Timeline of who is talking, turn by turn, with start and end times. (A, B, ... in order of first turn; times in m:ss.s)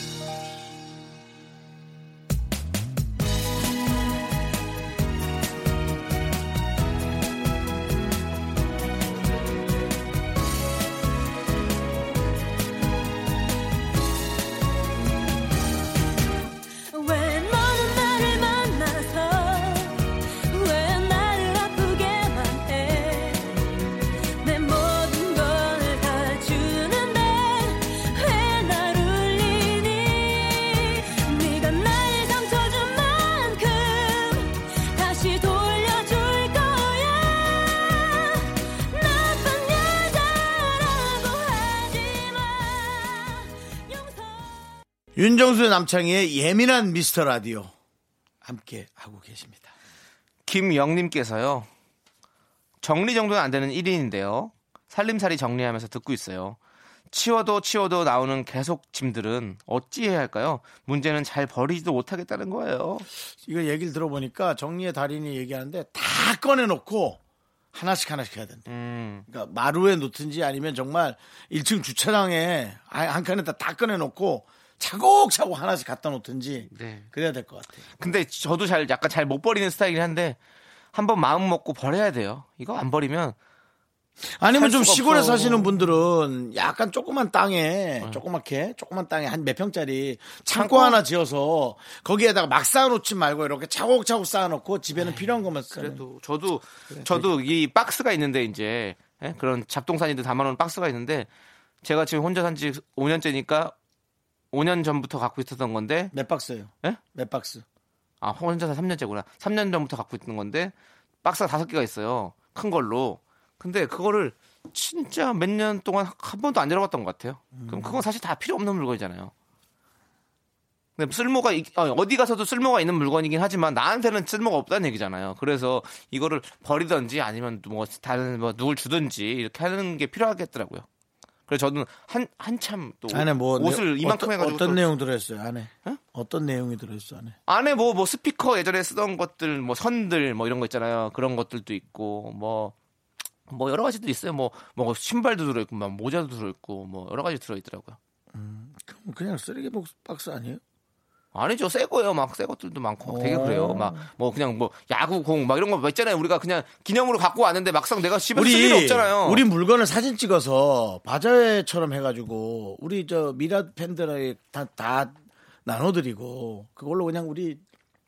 0:16.9-0:23.7 A
0:24.4-0:44.7 A
0:45.2-0:47.7 B
0:48.4-0:49.7 B
0:50.5-0:51.7 C
0:52.8-0:56.6 C
0:57.1-1:03.1 C
1:03.4-1:07.2 B
1:07.7-1:08.7 B
1:08.7-1:09.2 C
1:09.3-1:17.8 B
1:16.7-1:17.1 C
1:18.0-1:20.4 C
1:20.9-1:23.4 C
1:24.2-1:36.0 B
1:24.5-1:25.8 C
1:30.5-1:31.0 C
1:35.0-1:41.3 C
1:36.9-1:37.3 B
1:41.8-1:43.8 C
1:44.5-1:46.1 C
1:46.1-1:47.6 B
1:48.2-1:50.7 C
1:51.2-1:59.3 C
1:57.5-1:58.0 B
2:01.0-2:10.9 C
2:11.5-2:14.8 C
2:13.1-2:17.4 B
2:17.5-2:22.7 C
2:23.5-2:28.0 C
2:28.3-2:30.6 B
2:31.3-2:39.4 C
2:33.0-2:34.1 B
2:38.3-2:45.1 B
2:45.6-2:47.6 B